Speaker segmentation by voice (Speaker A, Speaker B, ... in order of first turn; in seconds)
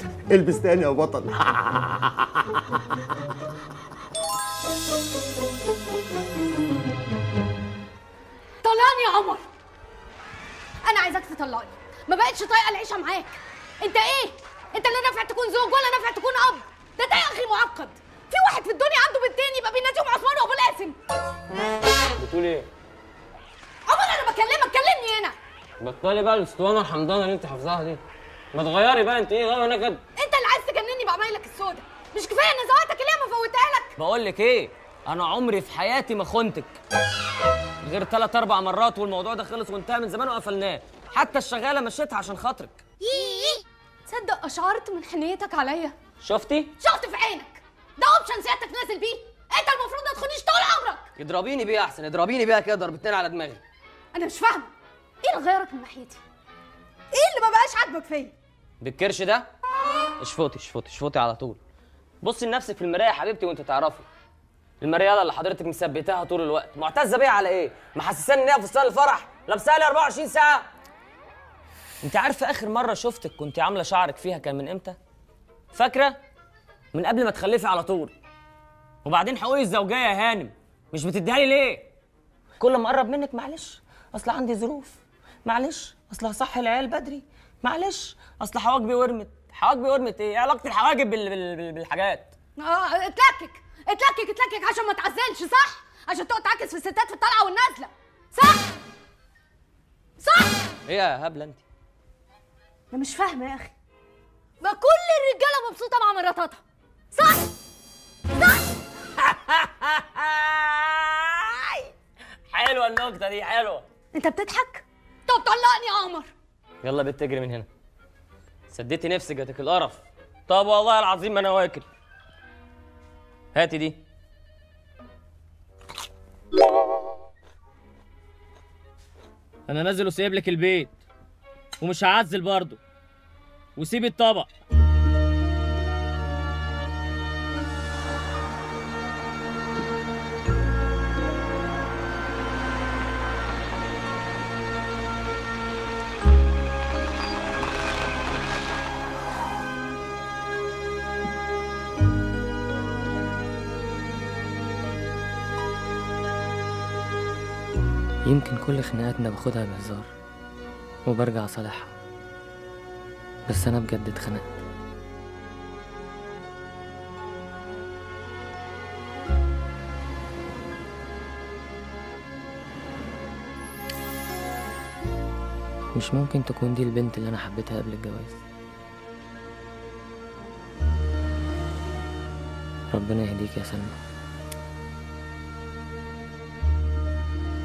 Speaker A: 0.3-2.4
Speaker B: 8.6-9.4, 10.8-21.0, 23.9-25.4, 30.1-34.0, 43.0-46.0, 46.8-51.1, 54.1-56.2, 57.1-58.3, 92.6-98.7, 100.2-100.6, 102.9-103.7, 104.6-106.6, 107.1-107.5, 114.1-116.3
Speaker C: 22.2-22.7, 25.8-28.0, 28.5-30.0, 34.0-36.8, 37.8-42.8, 46.2-46.7, 51.2-53.6, 58.8-59.5, 60.2-61.6, 62.2-64.1, 64.8-70.7, 72.0-75.0, 75.7-76.2, 76.9-78.1, 79.0-81.9, 82.6-92.3, 100.8-101.6, 109.2-111.9, 112.5-113.8, 116.8-117.7, 118.7-121.9, 123.5-124.0, 129.7-131.0, 131.8-132.8, 133.8-134.5, 158.2-160.1, 161.1-161.9, 163.4-164.5, 175.9-178.4, 182.9-183.9